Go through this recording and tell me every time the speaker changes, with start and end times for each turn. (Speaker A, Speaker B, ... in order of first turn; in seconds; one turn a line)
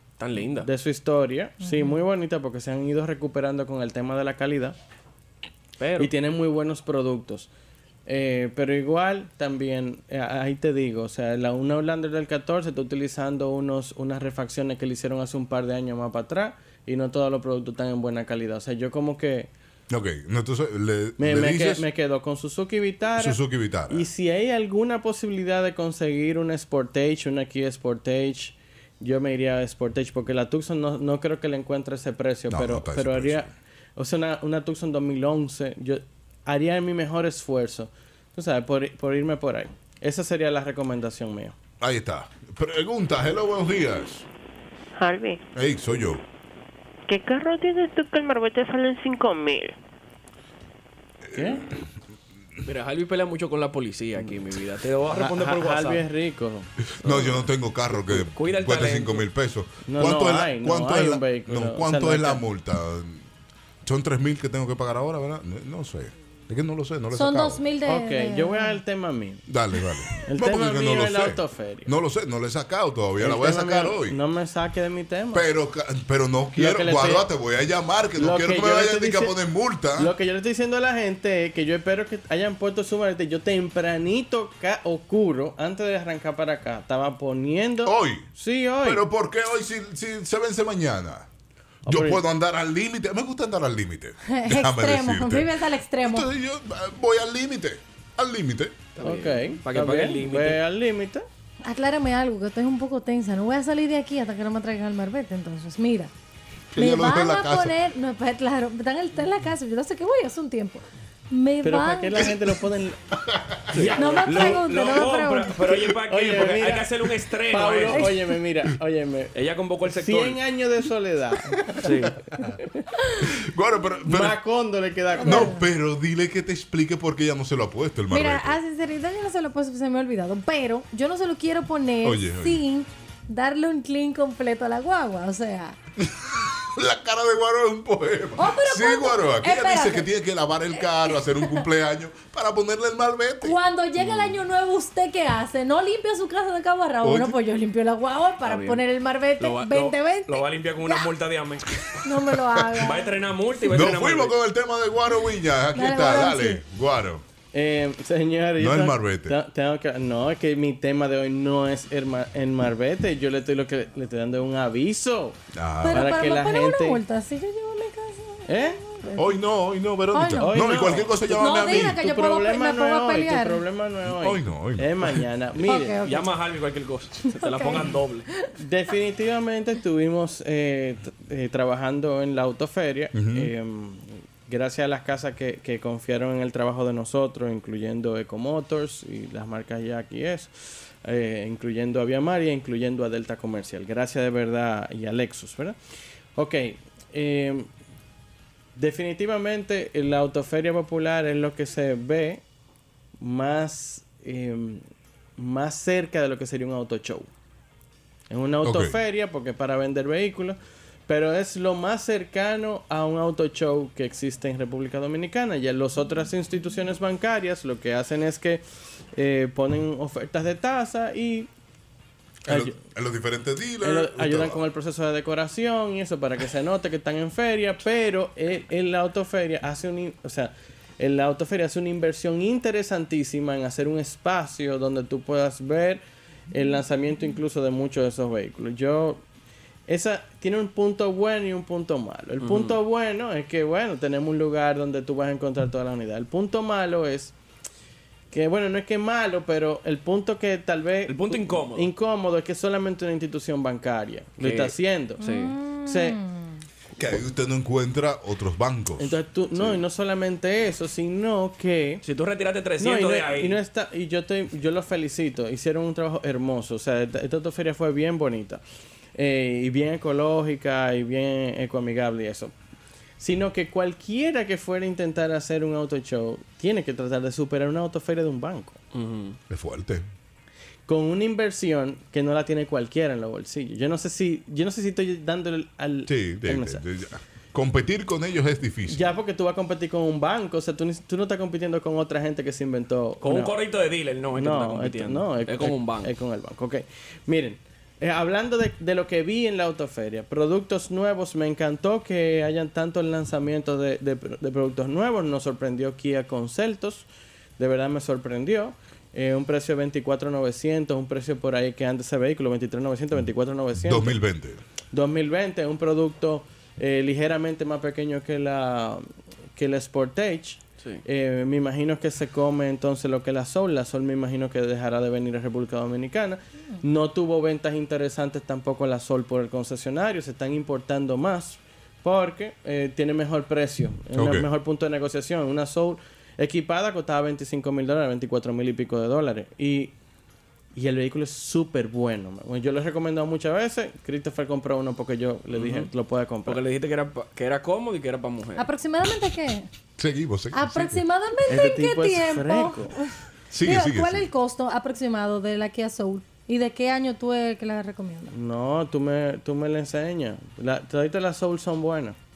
Speaker A: 0.2-0.7
Speaker B: 0.5-4.8
Speaker C: 1.6-2.0
Speaker A: 5.8-6.1
Speaker B: 6.0-7.5
Speaker B: 8.1-19.5
Speaker D: 19.9-21.8
Speaker B: 21.2-23.4
Speaker D: 23.2-24.0
Speaker B: 23.9-41.5
Speaker D: 32.5-33.5
Speaker D: 41.8-44.3
Speaker E: 45.0-45.4
Speaker D: 45.5-46.2
Speaker E: 47.1-49.8
Speaker D: 51.2-51.9
Speaker B: 51.3-51.6
Speaker A: 52.6-56.0
Speaker B: 55.1-56.7
Speaker D: 57.0-63.2
Speaker A: 57.0-59.2
Speaker B: 59.9-62.4
Speaker D: 63.8-67.6
Speaker C: 67.1-68.8
Speaker B: 67.8-69.4
Speaker D: 69.5-74.2
Speaker B: 70.2-71.9
Speaker B: 73.2-75.4
Speaker D: 75.3-80.1
Speaker B: 76.5-77.2
Speaker B: 78.2-79.3
Speaker B: 80.0-89.0
Speaker D: 87.8-88.3
Speaker D: 88.8-91.3
Speaker B: 91.8-92.2
Speaker D: 91.8-95.5
Speaker C: 94.3-96.3
Speaker D: 96.0-98.8
Speaker A: 99.0-100.6
Speaker B: 99.0-101.2
Speaker C: 101.6-106.1
Speaker D: 106.7-107.7
Speaker C: 106.8-112.3
Speaker B: 111.6-113.0
Speaker D: 113.2-113.9
Speaker A: 113.7-118.1
Speaker B: 113.8-114.4
Speaker C: 113.9-115.5
Speaker B: 116.1-116.9
Speaker B: 117.5-119.3
Speaker C: 117.9-118.2
Speaker A: 119.3-120.4
Speaker B: 119.8-121.9
Speaker A: 121.8-122.2
Speaker D: 123.2-124.4
Speaker B: 124.0-125.5
Speaker C: 125.2-125.6
Speaker D: 125.2-128.6
Speaker C: 128.1-135.8
Speaker D: 132.0-132.6
Speaker D: 136.0-143.6
Speaker C: 138.4-140.1
Speaker C: 141.0-141.6
Speaker C: 143.4-151.0
Speaker A: 144.0-144.3
Speaker D: 147.0-147.3
Speaker A: 148.4-148.8
Speaker A: 149.4-151.7
Speaker C: 152.0-153.1
Speaker A: 152.8-154.3
Speaker D: 153.7-157.2
Speaker C: 155.7-156.6
Speaker B: 157.5-165.4
Speaker D: 158.6-159.3
Speaker D: 165.5-166.1
Speaker C: 165.8-169.3
Speaker B: 165.9-167.0
Speaker B: 168.5-168.8
Speaker D: 169.2-172.0
Speaker C: 170.1-173.6
Speaker B: 170.4-176.0
Speaker D: 174.1-175.2
Speaker C: 175.6-176.3
Speaker A: 175.9-178.3
Speaker C: 177.3-178.5
Speaker B: 178.6-195.8
Speaker D: 183.1-183.5
Speaker B: 196.3-197.7
Speaker B: 198.7-202.4
Speaker B: 203.2-204.8
Speaker B: 205.4-207.3
Speaker B: 208.3-210.6
Speaker D: 208.6-208.9
Speaker B: 211.1-218.6
Speaker B: 219.1-221.5
Speaker D: 222.4-224.6
Speaker B: 222.5-222.8
Speaker B: 223.8-239.2
Speaker B: 239.9-247.3
Speaker A: 242.4-242.8
Speaker B: 248.3-255.2
Speaker A: 251.1-251.9
Speaker A: 254.4-255.6
Speaker C: 255.2-256.6
Speaker B: 255.8-256.2
Speaker D: 257.0-259.1
Speaker B: 259.0-262.0
Speaker A: 262.0-263.6
Speaker B: 262.8-268.6
Speaker B: 269.1-272.5
Speaker B: 273.2-278.8
Speaker A: 278.9-279.4
Speaker D: 279.5-280.0
Speaker B: 280.9-286.8
Speaker D: 286.1-289.0
Speaker B: 288.9-293.5
Speaker A: 293.2-296.1
Speaker B: 294.4-307.1
Speaker B: 307.6-314.2
Speaker D: 313.8-314.6
Speaker B: 314.9-339.9
Speaker D: 334.1-334.4
Speaker B: 340.7-346.6
Speaker A: 345.5-345.9
Speaker A: 346.4-348.6
Speaker C: 348.6-349.7
Speaker D: 350.0-351.0
Speaker C: 350.5-358.3
Speaker B: 351.5-352.9
Speaker D: 353.5-354.3
Speaker B: 358.3-362.1